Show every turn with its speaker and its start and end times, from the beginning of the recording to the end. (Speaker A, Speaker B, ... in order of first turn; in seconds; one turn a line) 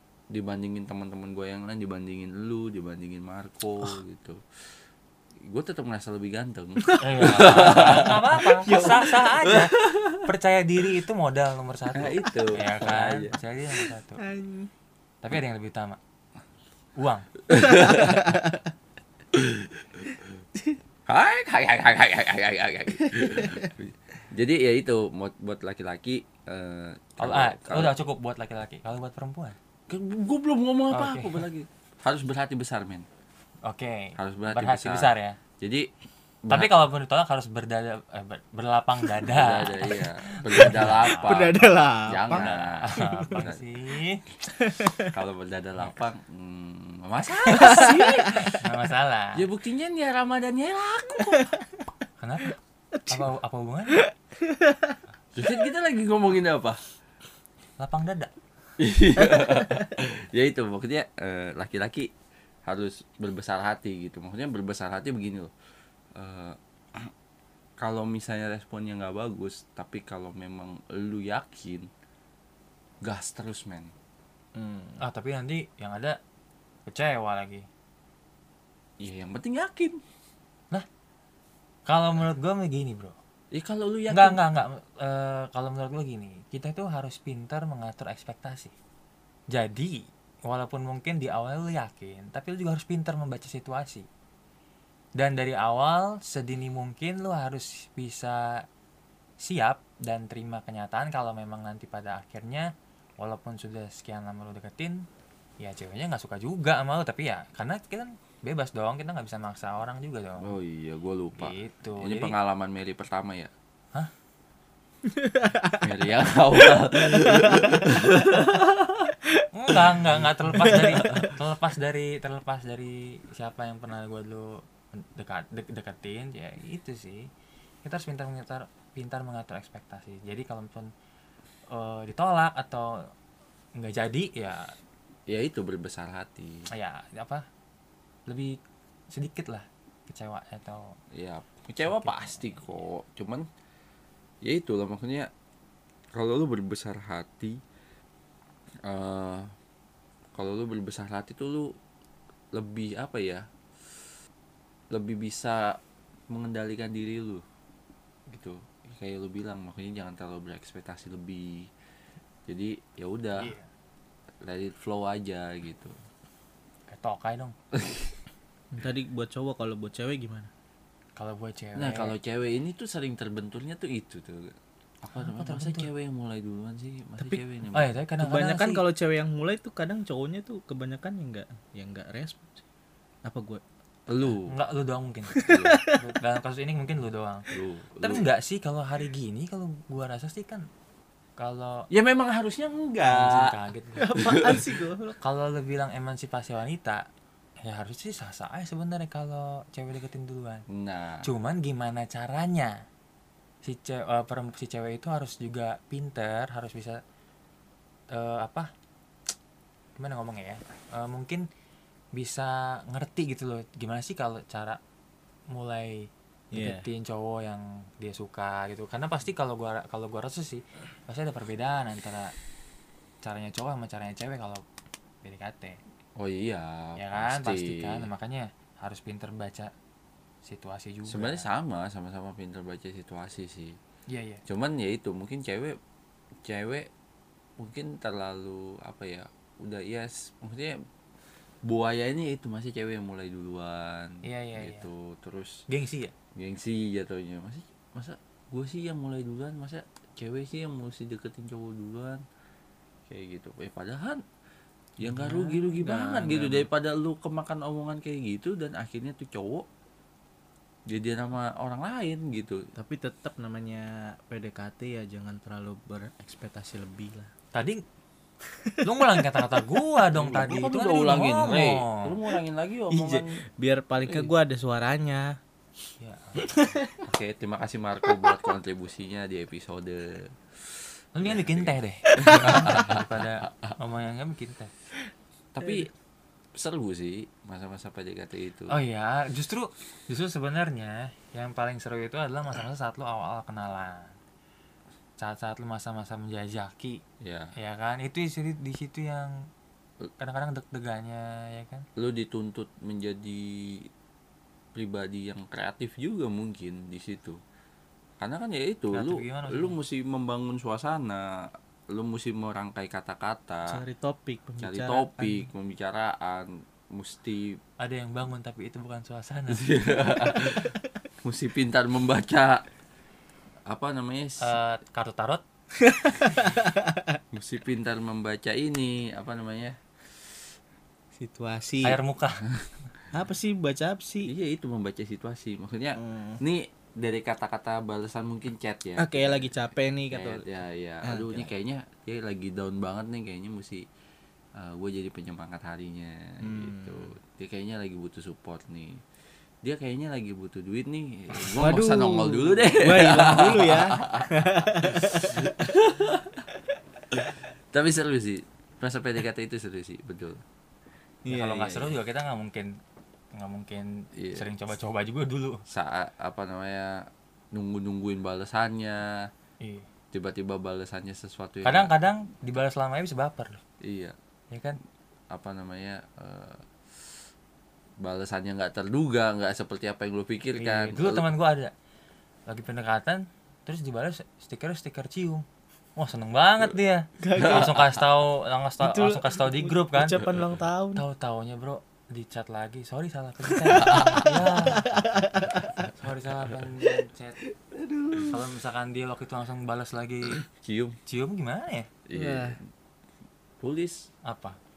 Speaker A: 0.3-4.5
Speaker A: 5.4-10.3
Speaker B: 6.8-7.2
Speaker C: 7.0-14.2
Speaker B: 7.7-7.9
Speaker B: 8.7-9.3
Speaker A: 11.9-13.4
Speaker B: 14.2-14.7
Speaker C: 15.2-16.0
Speaker C: 17.0-17.3
Speaker A: 17.5-18.4
Speaker B: 17.5-18.6
Speaker A: 19.3-20.0
Speaker A: 21.1-27.9
Speaker B: 23.0-23.7
Speaker C: 27.2-29.6
Speaker A: 29.9-33.1
Speaker C: 30.9-31.4
Speaker C: 33.7-35.4
Speaker A: 34.2-35.9
Speaker A: 36.5-36.7
Speaker C: 36.5-41.5
Speaker A: 39.2-43.6
Speaker B: 40.5-43.4
Speaker C: 42.3-44.2
Speaker B: 44.5-45.1
Speaker A: 45.0-48.6
Speaker B: 47.5-48.6
Speaker C: 48.5-49.5
Speaker A: 49.4-51.5
Speaker C: 52.2-54.1
Speaker B: 53.0-53.2
Speaker B: 54.0-55.0
Speaker A: 55.4-56.8
Speaker C: 57.8-58.3
Speaker A: 58.8-62.1
Speaker A: 62.7-65.5
Speaker A: 66.2-67.1
Speaker A: 67.8-71.9
Speaker A: 73.0-73.9
Speaker B: 74.5-75.0
Speaker C: 75.0-76.2
Speaker C: 76.9-77.7
Speaker A: 79.0-80.0
Speaker C: 81.9-83.2
Speaker A: 83.5-84.4
Speaker C: 84.1-88.7
Speaker C: 89.5-94.1
Speaker C: 95.2-98.7
Speaker C: 99.4-105.1
Speaker C: 105.6-110.5
Speaker A: 110.4-113.5
Speaker C: 111.4-112.3
Speaker B: 115.1-115.9
Speaker A: 115.8-119.1
Speaker B: 116.6-117.9
Speaker C: 119.5-127.3
Speaker A: 120.7-121.3
Speaker C: 127.8-130.9
Speaker C: 131.7-133.1
Speaker C: 133.8-134.7
Speaker A: 135.3-136.7
Speaker C: 136.7-137.5
Speaker C: 138.3-138.6
Speaker C: 139.1-140.9
Speaker A: 141.1-143.5
Speaker C: 141.9-142.5
Speaker A: 144.4-145.3
Speaker A: 146.2-147.6
Speaker A: 148.8-149.5
Speaker A: 150.3-151.8
Speaker A: 152.5-153.5
Speaker A: 154.9-155.8
Speaker A: 156.3-157.4
Speaker A: 158.3-161.7
Speaker A: 162.5-163.6
Speaker C: 163.4-163.7
Speaker A: 164.4-166.0
Speaker C: 166.9-167.6
Speaker A: 167.7-168.1
Speaker B: 168.7-170.5
Speaker C: 171.2-172.1
Speaker A: 171.8-177.9
Speaker C: 175.2-175.9
Speaker C: 177.7-178.8
Speaker B: 178.2-182.6
Speaker B: 183.2-183.6
Speaker A: 184.1-184.5
Speaker C: 184.5-187.5
Speaker B: 185.3-186.0
Speaker A: 185.4-185.8
Speaker A: 187.5-188.3
Speaker C: 188.0-190.7
Speaker C: 191.4-191.9
Speaker A: 191.9-193.5
Speaker C: 193.1-194.2
Speaker B: 194.0-195.2
Speaker A: 194.2-194.7
Speaker C: 195.2-197.1
Speaker C: 197.6-200.7
Speaker A: 200.7-201.3
Speaker C: 201.2-202.8
Speaker C: 203.6-207.0
Speaker C: 208.1-208.7
Speaker C: 210.0-211.4
Speaker C: 212.2-214.8
Speaker C: 215.5-222.3
Speaker B: 216.5-216.9
Speaker C: 223.2-224.6
Speaker C: 225.2-225.8
Speaker A: 226.2-228.1
Speaker C: 227.0-229.7
Speaker C: 230.4-231.5
Speaker A: 231.1-233.8
Speaker C: 234.1-234.4
Speaker A: 234.5-235.8
Speaker A: 236.4-236.9
Speaker A: 237.6-240.8
Speaker A: 241.6-245.6
Speaker C: 244.2-244.9
Speaker C: 245.7-246.1
Speaker A: 246.3-252.2
Speaker A: 253.1-254.2
Speaker A: 255.0-259.7
Speaker C: 255.0-256.7
Speaker A: 260.9-262.6
Speaker B: 262.8-267.3
Speaker C: 267.5-267.8
Speaker B: 268.5-268.8
Speaker C: 268.8-272.2
Speaker A: 270.1-273.3
Speaker B: 272.9-275.4
Speaker A: 274.0-274.3
Speaker C: 276.0-276.8
Speaker B: 276.4-277.1
Speaker A: 277.1-283.8
Speaker C: 281.1-284.7
Speaker A: 285.6-285.9
Speaker A: 286.6-288.8
Speaker C: 288.7-294.2
Speaker C: 295.2-297.0
Speaker A: 297.2-297.5
Speaker C: 297.6-299.3
Speaker C: 300.2-301.9
Speaker A: 302.0-303.9
Speaker A: 304.8-307.4
Speaker A: 308.2-313.8
Speaker C: 308.9-309.8
Speaker B: 313.7-315.5
Speaker A: 314.6-317.6
Speaker C: 317.8-319.7
Speaker A: 319.5-322.6
Speaker A: 323.7-324.6
Speaker C: 324.4-325.4
Speaker B: 325.8-327.2
Speaker A: 327.3-329.8
Speaker B: 331.2-332.0
Speaker C: 331.8-332.5
Speaker B: 333.1-334.3
Speaker A: 334.2-339.6
Speaker B: 336.0-336.4
Speaker B: 339.0-340.4
Speaker A: 340.1-343.9
Speaker B: 341.0-341.5
Speaker A: 344.6-349.0
Speaker B: 346.4-347.1
Speaker A: 349.6-354.3
Speaker B: 351.4-355.5
Speaker A: 354.8-356.4
Speaker A: 357.1-360.4
Speaker B: 361.2-362.0
Speaker C: 361.3-362.8
Speaker C: 363.4-365.6
Speaker A: 364.1-364.5
Speaker A: 365.7-369.3
Speaker C: 369.6-369.9
Speaker A: 370.1-371.9
Speaker C: 371.6-373.6
Speaker A: 373.8-374.1
Speaker C: 374.5-374.8
Speaker A: 375.3-376.7
Speaker A: 378.0-381.3
Speaker C: 380.6-381.7
Speaker C: 382.5-385.4
Speaker C: 386.0-390.2
Speaker B: 387.2-387.8
Speaker A: 387.4-387.7
Speaker B: 388.8-391.0
Speaker C: 391.0-395.0
Speaker B: 393.6-395.7
Speaker A: 393.8-394.4
Speaker C: 395.9-397.4
Speaker B: 397.6-398.4
Speaker C: 398.3-400.4
Speaker A: 400.4-401.0
Speaker C: 401.1-401.9
Speaker A: 402.1-402.6
Speaker B: 402.1-402.6
Speaker A: 403.6-404.1
Speaker C: 404.2-404.6